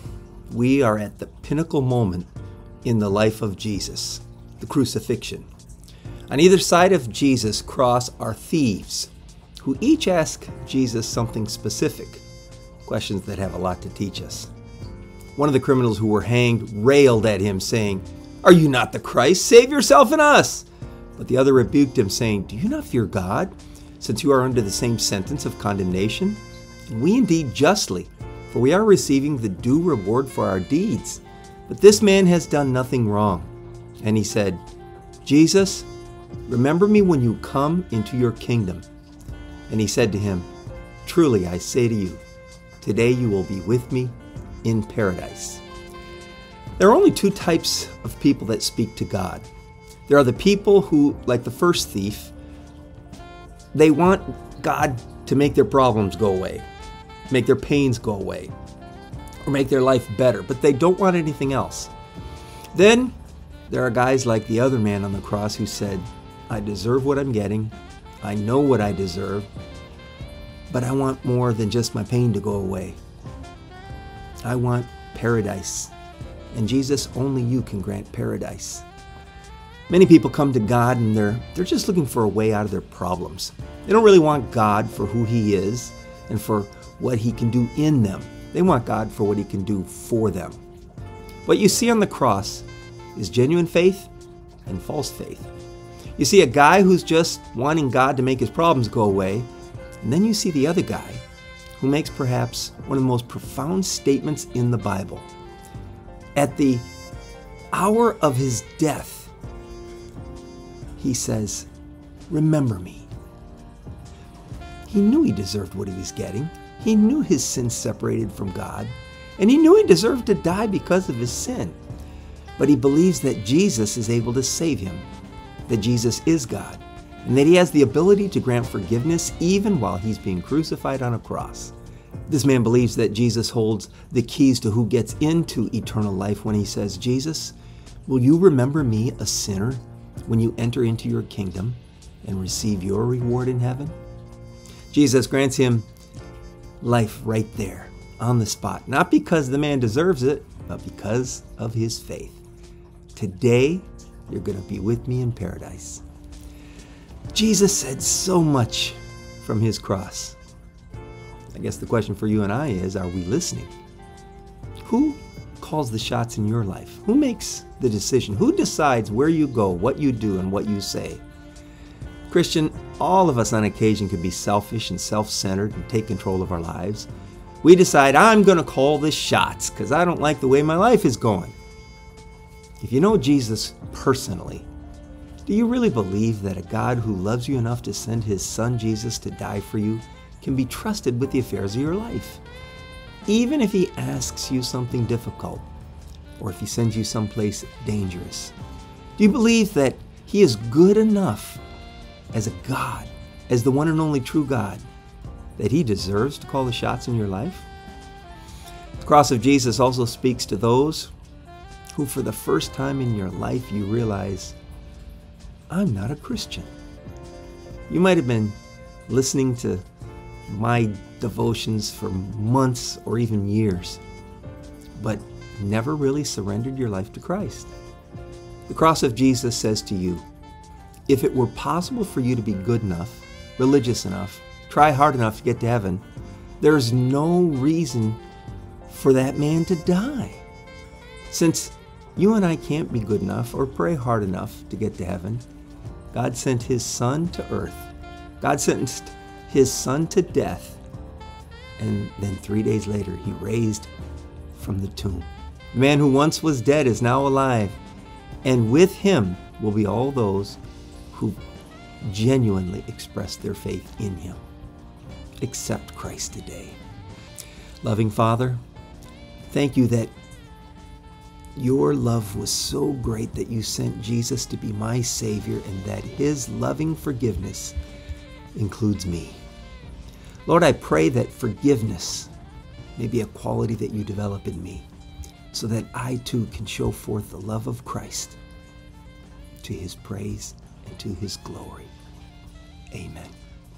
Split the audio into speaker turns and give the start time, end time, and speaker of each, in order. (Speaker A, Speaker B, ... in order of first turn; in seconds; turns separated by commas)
Speaker A: 0.5-2.3, Speaker A: 2.8-5.5, Speaker A: 6.3-12.2, Speaker A: 12.8-14.5, Speaker A: 15.3-34.6, Speaker A: 35.2-35.9, Speaker A: 36.5-38.8, Speaker A: 39.7-40.5, Speaker A: 41.0-42.2, Speaker A: 42.8-45.6, Speaker A: 46.8-49.5, Speaker A: 50.1-52.3, Speaker A: 53.7-56.6, Speaker A: 57.3-58.5, Speaker A: 59.4-61.9, Speaker A: 62.7-63.1, Speaker A: 63.7-69.5, Speaker A: 70.7-73.0, Speaker A: 74.4-75.9, Speaker A: 76.5-78.8, Speaker A: 79.9-90.6, Speaker A: 91.5-94.1, Speaker A: 94.7-95.5, Speaker A: 96.2-99.5, Speaker A: 100.0-101.2, Speaker A: 101.8-105.3, Speaker A: 106.3-106.8, Speaker A: 107.7-109.3, Speaker A: 111.0-111.7, Speaker A: 112.3-113.1, Speaker A: 114.9-121.8, Speaker A: 122.6-125.1, Speaker A: 125.7-131.7, Speaker A: 132.3-137.5, Speaker A: 138.1-143.9, Speaker A: 144.9-145.9, Speaker A: 146.8-152.4, Speaker A: 153.1-156.0, Speaker A: 157.3-160.4, Speaker A: 161.5-163.7, Speaker A: 164.8-171.2, Speaker A: 172.3-177.1, Speaker A: 177.6-181.5, Speaker A: 182.8-184.7, Speaker A: 185.4-192.4, Speaker A: 193.3-195.7, Speaker A: 196.4-198.5, Speaker A: 199.2-201.6, Speaker A: 202.3-204.8, Speaker A: 205.6-207.7, Speaker A: 209.0-211.1, Speaker A: 211.9-214.6, Speaker A: 215.7-216.7, Speaker A: 217.9-218.6, Speaker A: 219.1-219.8, Speaker A: 220.5-224.0, Speaker A: 225.0-227.7, Speaker A: 228.7-230.2, Speaker A: 231.1-236.0, Speaker A: 236.6-238.2, Speaker A: 238.9-240.4, Speaker A: 241.3-245.4, Speaker A: 246.1-247.9, Speaker A: 248.4-250.8, Speaker A: 251.8-253.9, Speaker A: 254.5-257.7, Speaker A: 258.4-260.6, Speaker A: 261.1-261.4, Speaker A: 262.0-264.4, Speaker A: 265.4-266.8, Speaker A: 267.8-268.6, Speaker A: 269.5-270.1, Speaker A: 271.5-277.8, Speaker A: 278.5-279.4, Speaker A: 280.4-282.3, Speaker A: 283.0-284.9, Speaker A: 285.5-288.4, Speaker A: 289.6-291.9, Speaker A: 292.9-293.3